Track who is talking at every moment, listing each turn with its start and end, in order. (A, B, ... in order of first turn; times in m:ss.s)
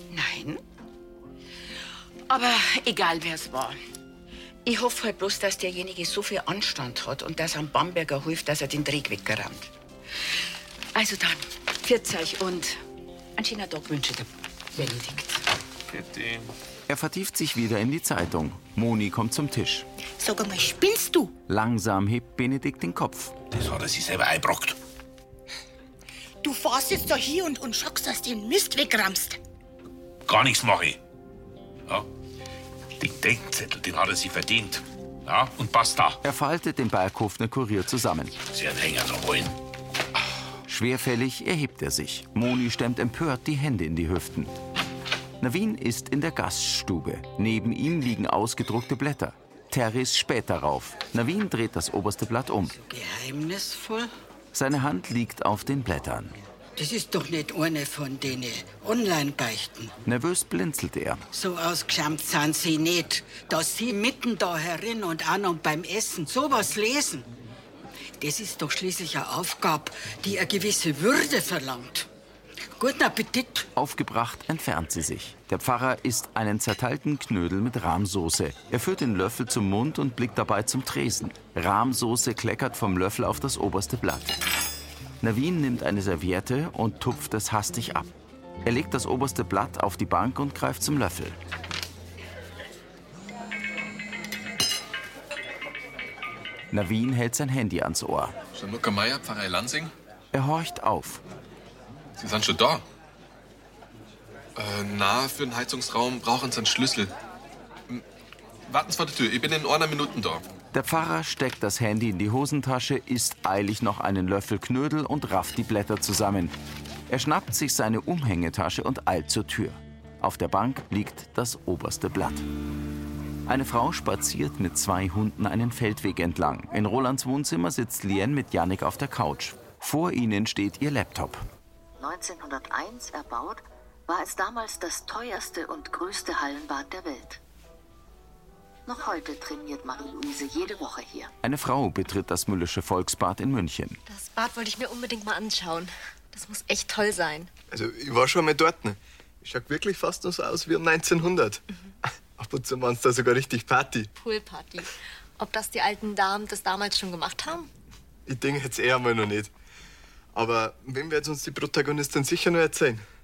0:00.1-0:00.6 A
0:02.3-0:03.8 A
0:04.6-0:09.7 A
0:11.0-0:12.8 A
0:13.4-0:15.4 A
0:15.9-0:16.5 B
0:16.9-0:19.9 C
0:20.2-0:21.3 D
0:21.5-0:23.4 C
0:23.5-0:24.8 B
0:26.4-0:29.4 D
0:30.2-0:31.0 B
0:33.0-0:36.2 B
0:36.2-0:38.4 C
0:38.4-0:39.6 B
0:40.7-0:44.6 C
0:45.4-0:52.8 C
0:52.8-0:54.1 E
0:54.5-0:56.4 C
0:56.8-0:59.9 E
1:00.0-1:01.2 C
1:01.3-1:07.3 E
1:08.2-1:12.1 E
1:12.8-1:13.7 E
1:13.8-1:24.4 C
1:25.2-1:28.1 C
1:28.6-1:31.4 C
1:36.7-1:38.4 C
1:38.5-1:39.9 F
1:40.3-1:41.2 C
1:42.2-1:42.8 F
1:44.6-1:47.1 F
1:48.7-1:50.4 F
1:50.7-1:56.5 C
1:57.1-2:02.5 C
2:03.5-2:11.4 C
2:12.0-2:17.4 G
2:18.9-2:21.3 G
2:21.4-2:24.0 C
2:24.1-2:27.5 H
2:27.7-2:31.6 I
2:32.4-2:34.1 I
2:34.2-2:37.7 H
2:38.3-2:39.5 I
2:40.3-2:43.0 I